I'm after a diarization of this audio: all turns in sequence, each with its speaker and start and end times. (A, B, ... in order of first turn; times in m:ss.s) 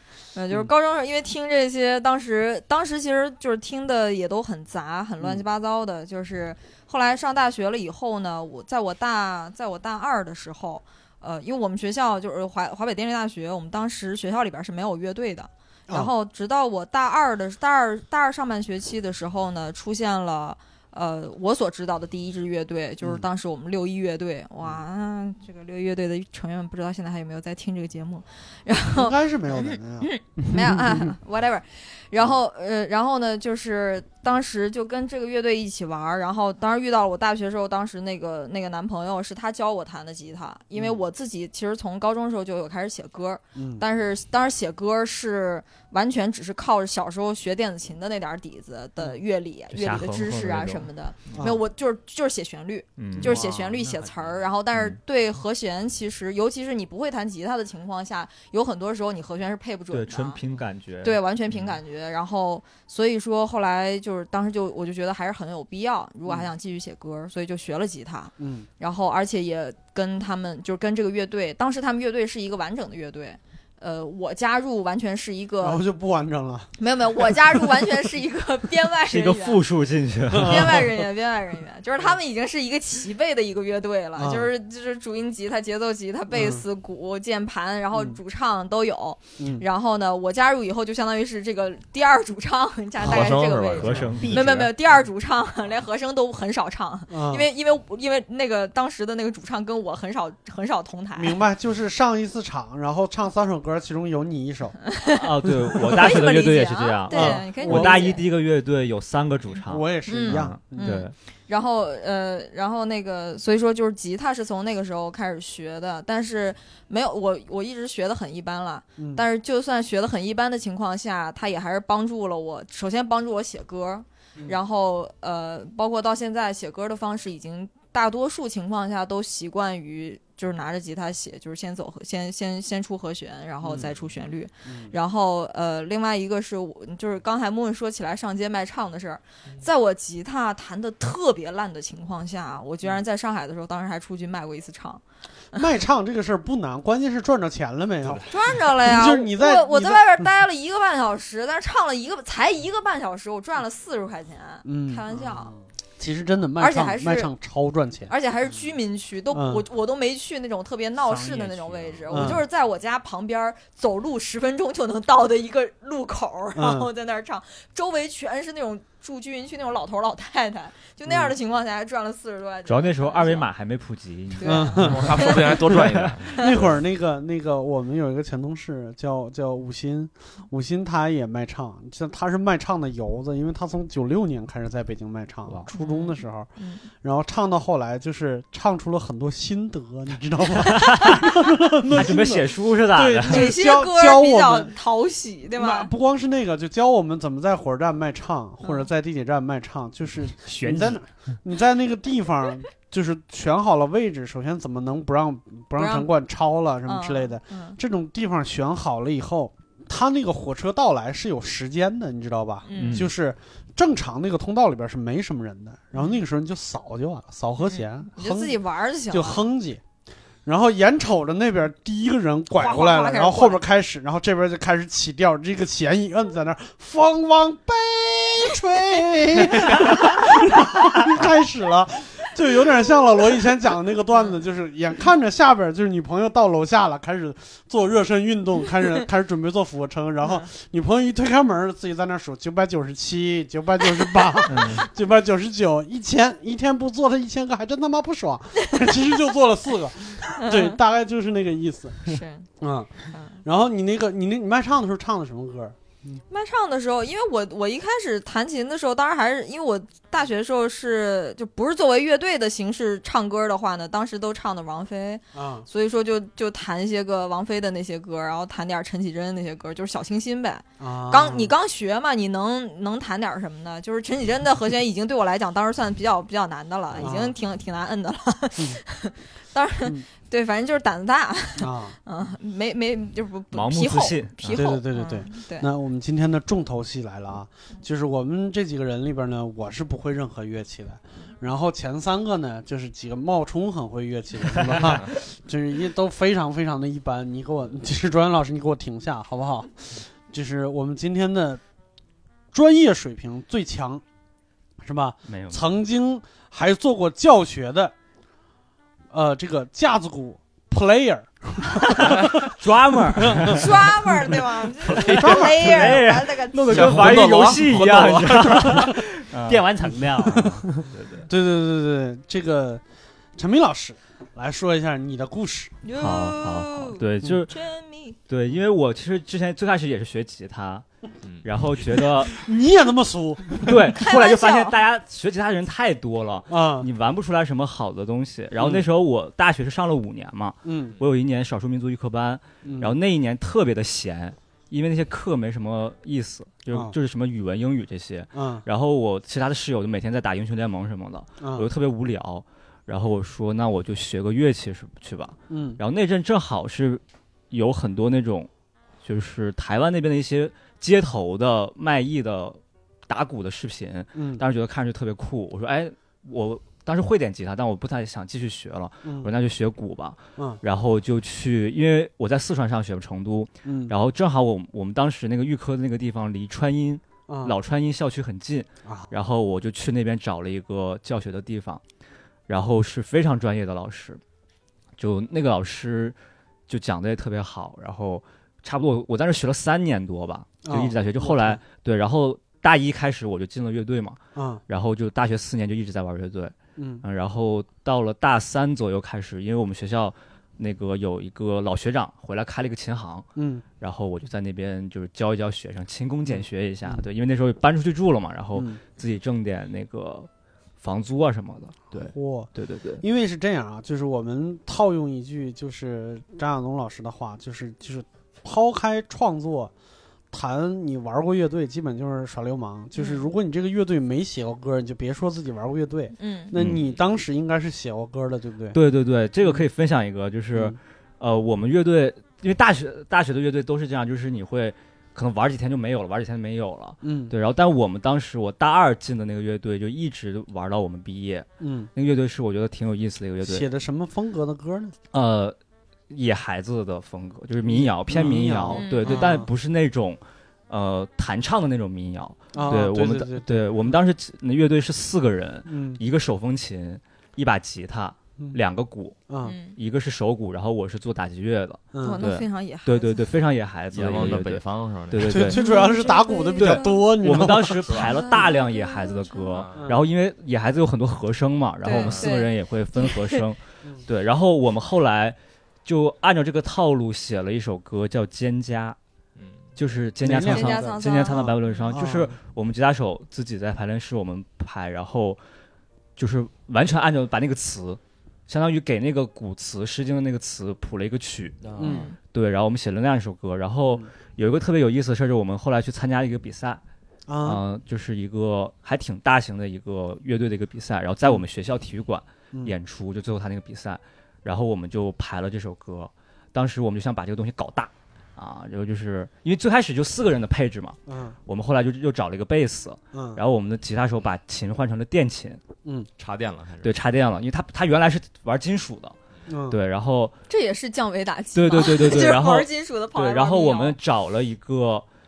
0:00.3-1:00.4 A
0:28.9-0:30.1 B
0:40.7-0:41.0 B
0:43.6-0:43.8 B
0:49.7-0:51.4 C
0:51.3-0:51.6 B
0:53.0-0:53.5 C
0:53.4-0:54.3 D
0:54.7-0:55.0 C
0:59.9-1:01.8 C
1:01.0-1:15.8 A
1:08.4-1:08.7 B
1:15.6-1:16.7 B
1:16.8-1:19.7 A
1:19.0-1:21.0 C
1:20.3-1:20.8 B
1:20.3-1:41.4 A
1:24.2-1:24.5 B
1:26.3-1:26.6 B
1:29.4-1:29.6 B
1:33.0-1:34.6 E
1:33.1-1:34.7 C
1:37.1-1:37.5 B
1:41.2-1:44.8 B
1:44.9-1:45.2 A
1:45.2-1:51.1 C
1:45.8-1:48.2 A
1:47.1-1:48.0 B
1:49.7-1:51.0 B
1:49.9-2:25.0 A
1:59.0-1:59.2 B
2:13.6-2:13.9 B
2:14.6-2:14.9 B
2:25.5-2:28.3 B
2:28.3-2:35.5 A
2:28.8-2:30.2 B
2:34.6-2:35.0 B
2:36.0-2:38.1 B
2:36.6-2:37.3 A
2:38.1-2:53.5 A
2:39.3-2:39.6 B
2:41.0-2:42.4 D
2:42.1-2:42.4 B
2:46.5-2:46.9 B
2:51.0-2:51.3 B
2:52.6-2:56.1 C
2:54.3-2:55.5 A
2:54.4-2:55.0 B
2:54.8-2:56.6 E
2:56.4-3:06.5 B
3:05.7-3:06.9 A
3:07.0-3:14.7 B
3:10.7-3:11.2 C
3:10.8-3:11.3 A
3:11.9-3:13.5 C
3:13.2-3:15.9 A
3:15.6-3:39.8 B
3:18.6-3:18.9 A
3:20.4-3:21.0 D
3:25.8-3:26.1 A
3:26.8-3:27.8 A
3:32.6-3:33.1 A
3:32.7-3:33.1 C
3:35.9-3:36.2 A
3:37.6-3:39.4 A
3:40.4-4:16.2 B
3:42.5-3:43.6 A
4:00.2-4:00.5 A
4:04.5-4:04.9 C
4:10.4-4:10.8 A
4:12.1-4:12.5 A
4:13.1-4:13.4 A
4:16.3-4:45.7 A
4:25.3-4:25.6 B
4:30.8-4:31.5 B
4:37.0-4:37.4 B
4:41.6-4:42.0 B
4:43.5-4:44.8 C
4:44.5-5:01.6 B
5:02.5-5:04.0 B
5:04.8-5:07.9 B
5:05.2-5:05.6 C
5:09.1-5:12.5 B
5:12.0-5:13.9 C
5:13.2-5:13.5 B
5:13.4-5:17.3 A
5:14.8-5:15.5 E
5:15.2-5:19.7 C
5:15.2-5:15.5 B
5:16.7-5:18.9 E
5:19.4-5:20.8 D
5:20.4-5:21.3 C
5:21.3-5:22.8 B
5:23.4-5:25.7 B
5:25.8-5:28.2 A
5:26.0-5:27.5 C
5:28.3-5:30.8 C
5:31.4-5:32.4 C
5:32.3-5:33.8 B
5:33.6-5:58.5 C
5:33.9-5:34.8 A
5:36.5-5:36.9 B
5:38.6-5:38.8 B
5:40.6-5:41.0 B
5:42.6-5:42.9 B
5:46.7-5:46.9 B
5:48.3-5:48.6 B
5:51.4-5:51.7 B
5:55.5-5:55.8 B
5:59.0-6:21.8 C
6:04.1-6:04.4 B
6:09.0-6:09.3 B
6:13.6-6:13.9 B
6:17.3-6:17.5 B
6:22.5-6:24.2 C
6:25.0-6:26.2 C
6:26.7-6:43.3 C
6:30.6-6:31.6 B
6:34.3-6:34.6 B
6:36.8-6:37.0 B
6:43.4-6:43.6 B
6:43.8-6:50.3 C
6:46.3-6:47.0 B
6:48.5-6:48.8 B
6:50.8-6:53.0 C
6:52.0-6:59.7 B
7:00.3-7:08.8 B
7:02.9-7:03.3 A
7:06.2-7:06.5 A
7:06.5-7:06.8 C
7:08.7-7:23.7 C
7:17.0-7:17.3 B
7:21.6-7:21.9 B
7:23.4-7:24.9 B
7:25.1-7:25.6 C
7:26.1-7:39.2 C
7:27.6-7:29.5 B
7:28.7-7:29.4 A
7:32.5-7:34.0 B
7:35.7-7:36.0 B
7:39.3-7:39.5 B
7:39.4-7:39.8 A
7:39.8-7:45.7 C
7:41.9-7:42.2 B
7:42.0-7:43.3 A
7:43.9-7:45.4 E
7:45.3-7:47.8 B
7:45.4-7:47.2 A
7:46.6-7:59.0 C
7:47.8-7:48.1 E
7:47.9-7:49.5 A
7:49.5-7:49.8 E
7:49.7-7:50.0 B
7:51.8-7:53.4 A
7:51.9-7:52.3 E
7:59.4-7:59.7 E
7:59.8-8:05.4 C
8:00.2-8:02.3 B
8:00.3-8:02.0 A
8:06.2-8:11.7 C
8:11.6-8:12.0 E
8:11.8-8:12.0 B
8:11.8-8:12.2 A
8:12.2-8:16.8 C
8:17.3-8:17.6 B
8:17.4-8:35.6 C
8:31.1-8:31.4 B
8:33.1-8:33.4 B
8:36.2-8:37.0 E
8:36.8-8:39.2 C
8:39.5-8:39.8 B
8:39.7-8:40.4 C
8:40.5-8:44.0 A
8:41.5-8:45.0 C